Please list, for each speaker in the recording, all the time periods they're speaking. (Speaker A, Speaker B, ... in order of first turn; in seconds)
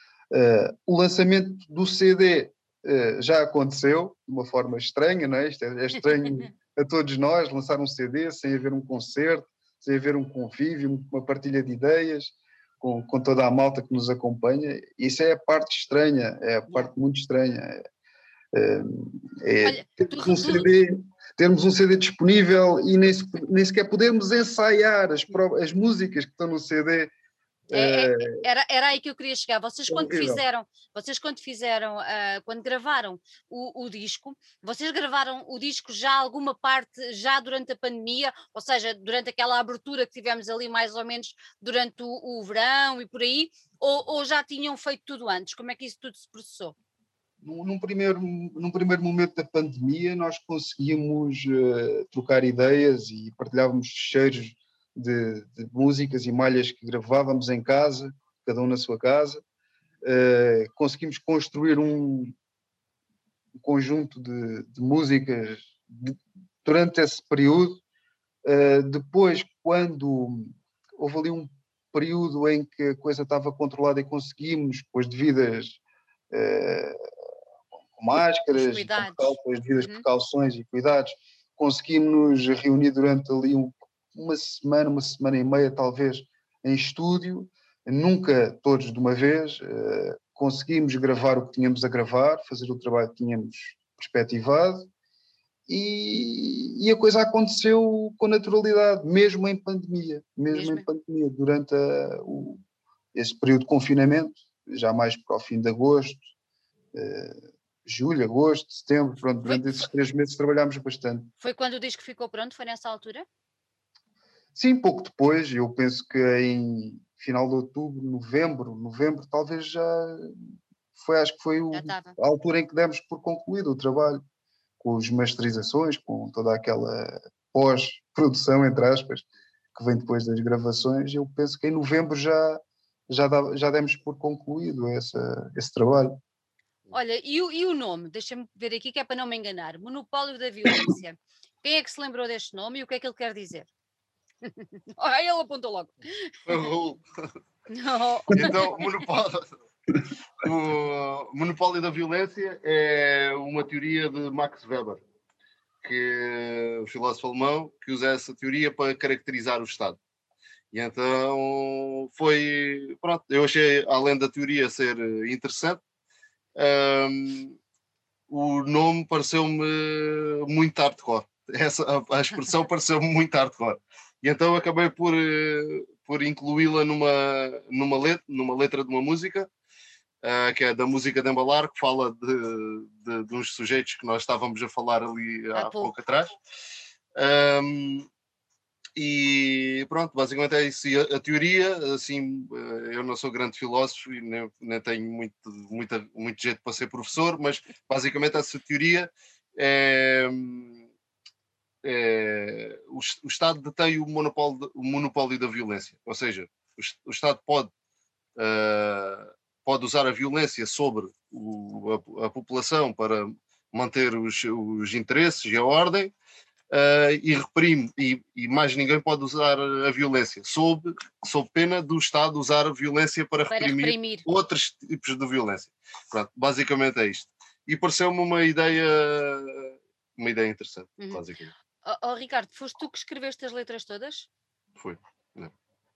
Speaker A: 0.3-17.8, 18.5-27.1, 27.7-28.4, 29.9-30.4, 47.4-59.4, 60.0-62.4, 63.6-67.8, 68.4-75.8, 76.3-77.0, 78.0-94.9, 95.7-102.6, 103.1-106.2, 106.9-111.3, 114.5-120.4, 120.9-124.2, 124.8-136.2
Speaker B: 19.6-20.7, 27.7-46.8, 78.5-80.0, 100.5-100.8, 111.4-113.2, 121.7-122.2, 136.9-143.7, 144.4-146.3, 147.7-148.8, 185.5-185.9, 223.5-224.2, 231.8-234.3
Speaker C: 146.5-147.0, 148.3-149.5, 150.4-155.0, 155.8-160.0, 160.7-165.8, 166.6-167.6, 168.3-179.5, 180.2-186.3, 187.2-188.1, 189.0-200.8, 201.8-207.7, 208.3-216.1, 216.7-231.5, 234.8-235.5